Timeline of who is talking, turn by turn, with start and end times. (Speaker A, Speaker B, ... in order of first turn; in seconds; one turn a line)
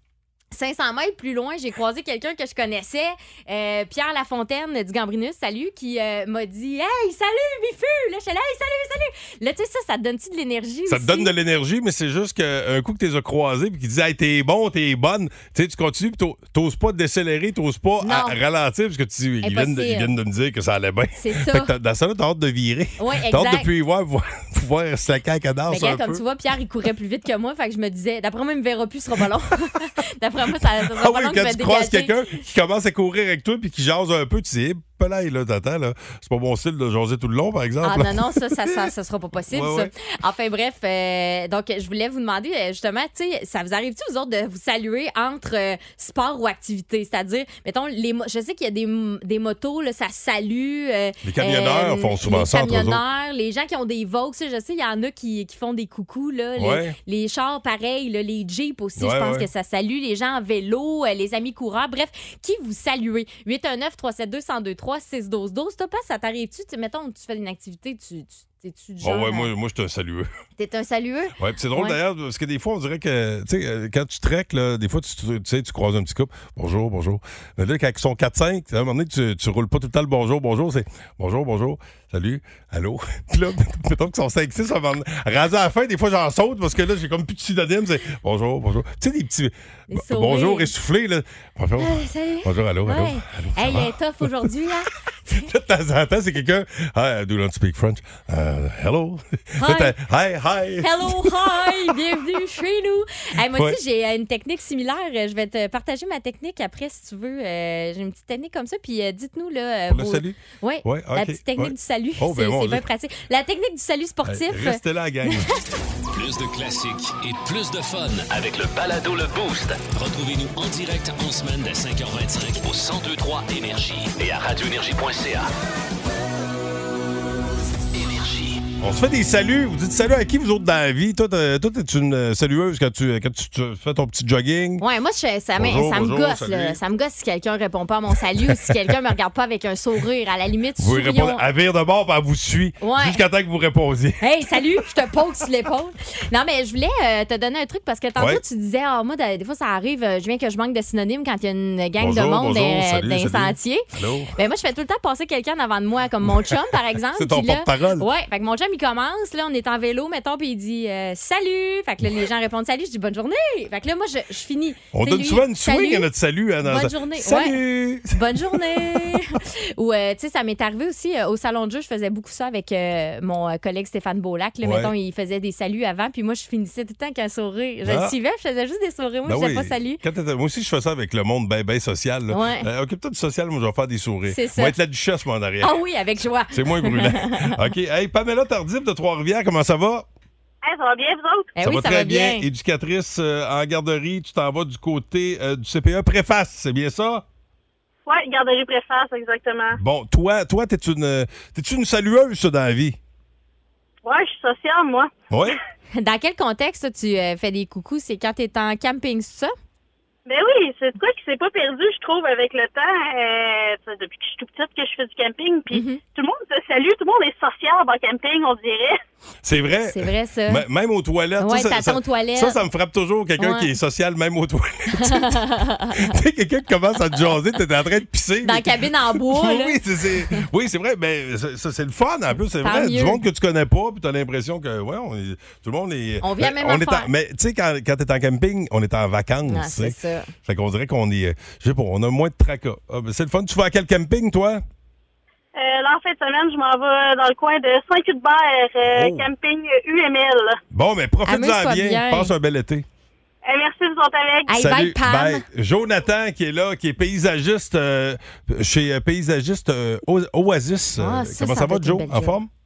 Speaker A: 0.5-11.3
Speaker B: 10.9-26.2
Speaker A: 18.0-18.4
Speaker A: 19.4-20.1
Speaker A: 21.2-21.7
Speaker A: 23.0-23.7
Speaker A: 25.7-32.4
Speaker B: 30.9-38.9
Speaker A: 37.8-69.5
Speaker B: 39.5-39.9
Speaker B: 51.2-53.0
Speaker B: 56.6-57.0
Speaker B: 59.0-59.5
Speaker B: 69.0-70.3
Speaker A: 70.6-72.0
Speaker B: 71.4-94.5
Speaker A: 89.9-90.7
Speaker A: 91.8-95.5
Speaker B: 95.3-102.0
Speaker A: 99.6-100.0
Speaker A: 100.8-115.4
Speaker B: 103.4-103.8
Speaker B: 109.9-112.9
Speaker B: 114.2-115.5
Speaker C: 116.1-125.5
Speaker C: 127.9-128.6
Speaker B: 128.8-134.8
Speaker A: 134.8-141.4
Speaker B: 135.6-136.8
Speaker B: 138.5-138.9
Speaker B: 140.8-144.2
Speaker A: 142.8-143.2
Speaker A: 144.2-166.1
Speaker B: 148.2-148.4
Speaker B: 152.0-154.3
Speaker B: 157.1-158.1
Speaker B: 164.9-169.2
Speaker A: 166.6-180.0
Speaker B: 174.6-174.9
Speaker B: 177.8-178.2
Speaker B: 179.3-185.8
Speaker A: 182.3-182.7
Speaker A: 184.3-184.8
Speaker A: 185.6-187.6
Speaker B: 186.5-190.1
Speaker D: 190.6-191.5
Speaker A: 191.6-192.5
Speaker B: 191.6-197.2
Speaker D: 198.1-199.8
Speaker B: 199.8-203.0
Speaker D: 204.0-205.1
Speaker B: 205.3-205.6
Speaker A: 206.0-209.5
Speaker D: 210.3-219.0
Speaker A: 215.7-216.0
Speaker B: 219.4-244.6
Speaker A: 219.9-220.7
Speaker A: 221.4-222.6
Speaker A: 223.4-223.7
Speaker A: 224.9-226.1
Speaker A: 228.4-230.5
Speaker A: 232.6-233.2
Speaker A: 236.2-237.1
Speaker A: 239.5-240.3
Speaker D: 245.6-250.6
Speaker B: 248.9-249.3
Speaker B: 250.7-252.9
Speaker A: 251.3-252.3
Speaker D: 253.5-254.5
Speaker A: 254.5-255.4
Speaker B: 254.5-262.5
Speaker A: 261.0-262.4